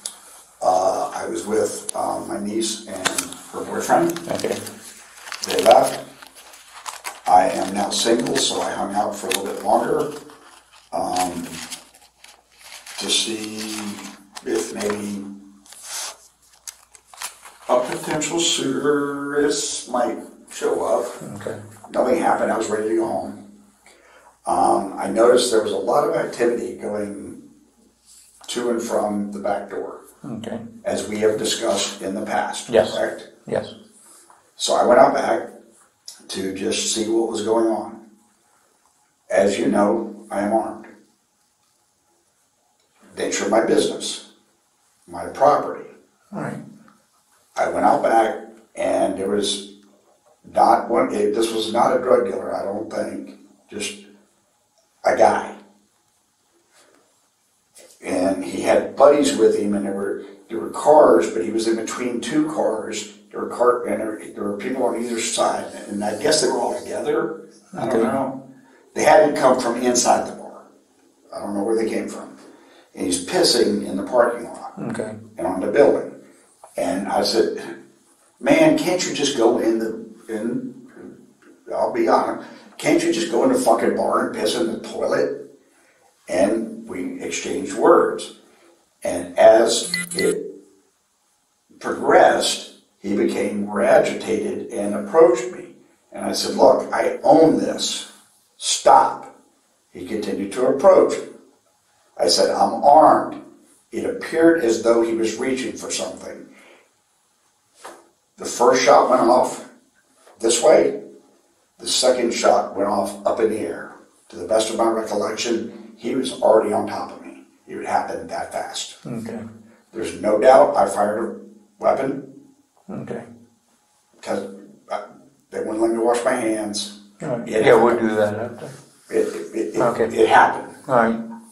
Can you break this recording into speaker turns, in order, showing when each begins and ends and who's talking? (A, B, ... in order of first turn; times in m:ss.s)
0:00.6-0:04.2 A
0:04.3-0:04.6 B
0:05.4-0:06.0 A
0:07.2-0:10.1 A
0:10.9-0:11.6 A
0:13.0-0:15.3 A
0:17.7-0:21.2 A
0:21.2-0:21.6 B
0:21.8-0:23.4 A
0:24.4-0:27.4 A
0:28.5-0:30.0 A
0:30.2-0:30.6 B
0:30.8-0:33.3 A
0:32.7-0:33.7 B
0:34.6-0:35.5 A
0:36.3-0:38.0 A
0:39.3-0:40.9 A
0:43.1-0:44.2 A
0:45.1-0:45.9 A
0:46.3-0:46.6 B
0:47.6-0:49.7 A
0:50.4-0:54.0 A
0:55.0-0:55.6 A
0:58.0-1:08.4 A
1:07.8-1:08.1 B
1:08.9-1:10.6 A
1:11.3-1:12.4 A
1:12.9-1:14.8 A
1:14.8-1:15.2 B
1:15.4-1:16.1 A
1:16.8-1:17.7 A
1:18.4-1:21.2 A
1:21.7-1:25.4 A
1:26.3-1:28.3 A
1:29.0-1:30.5 A
1:31.8-1:38.1 A
1:38.6-1:39.3 A
1:39.9-1:41.3 A
1:42.2-1:43.4 A
1:43.9-1:46.5 A
1:48.4-1:49.7 A
1:50.4-1:51.0 A
1:51.8-1:59.0 A
1:59.0-1:59.5 B
1:59.9-2:02.3 A
2:02.9-2:03.3 B
2:04.2-2:08.1 A
2:07.2-2:08.7 B
2:09.1-2:10.8 A
2:09.8-2:10.1 B
2:10.9-2:11.2 B